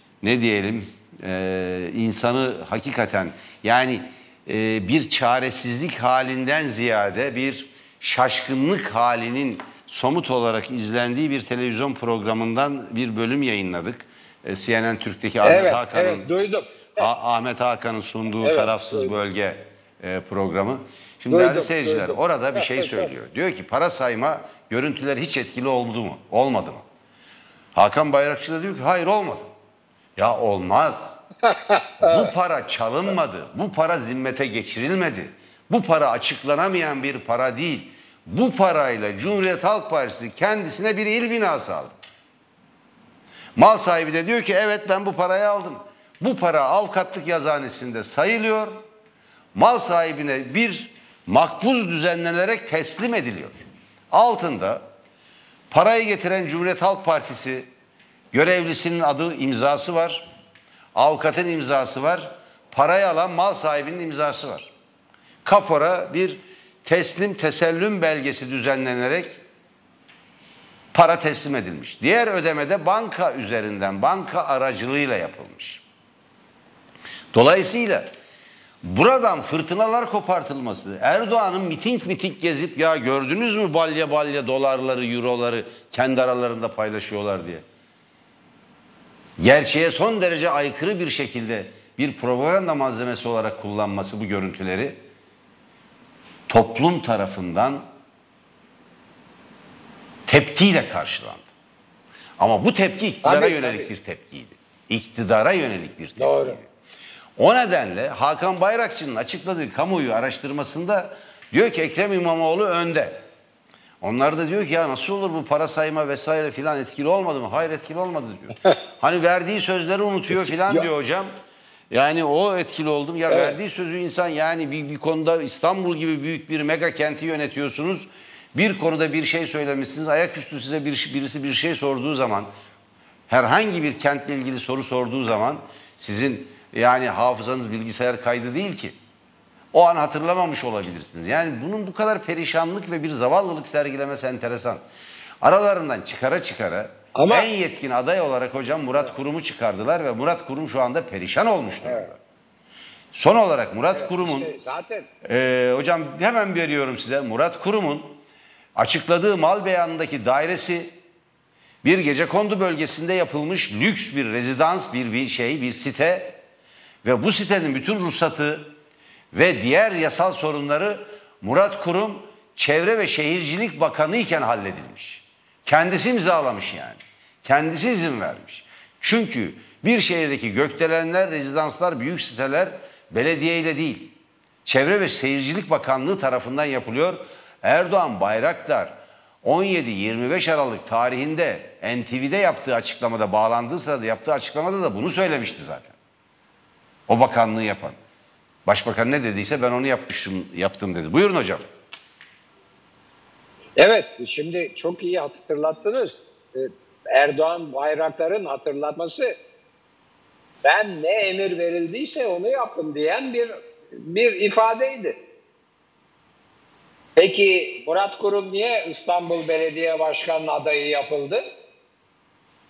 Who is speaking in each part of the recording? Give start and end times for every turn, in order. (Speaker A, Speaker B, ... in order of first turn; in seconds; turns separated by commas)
Speaker A: 0.2-16.3, Speaker B: 15.4-17.1, Speaker A: 17.0-26.8, Speaker B: 18.4-19.1, Speaker B: 21.3-23.1, Speaker A: 27.8-29.5, Speaker A: 30.2-31.2, Speaker B: 31.5-32.3, Speaker A: 32.0-42.0, Speaker A: 43.6-48.8, Speaker A: 49.5-54.8, Speaker A: 55.7-57.7, Speaker A: 58.3-60.3, Speaker A: 61.0-64.7, Speaker A: 65.4-69.4, Speaker A: 70.9-75.8, Speaker A: 77.3-78.1, Speaker A: 78.8-87.6, Speaker A: 89.4-95.0, Speaker A: 96.5-97.8, Speaker A: 100.3-101.5, Speaker A: 102.4-106.7, Speaker B: 103.2-103.9, Speaker B: 106.2-106.6, Speaker A: 107.4-113.2, Speaker A: 114.0-121.3, Speaker A: 121.9-132.5, Speaker B: 123.3-123.6, Speaker A: 133.3-138.9, Speaker A: 139.7-144.8, Speaker A: 145.4-152.2, Speaker B: 147.2-147.5, Speaker A: 153.1-154.5, Speaker B: 153.9-155.1, Speaker A: 155.2-158.2, Speaker A: 158.8-160.9, Speaker A: 161.8-166.4, Speaker A: 167.0-168.7, Speaker A: 169.3-184.1, Speaker A: 184.7-195.9, Speaker A: 197.1-198.0, Speaker A: 198.7-201.7, Speaker B: 203.8-209.3, Speaker B: 210.6-213.5, Speaker B: 214.0-215.2, Speaker B: 217.2-221.4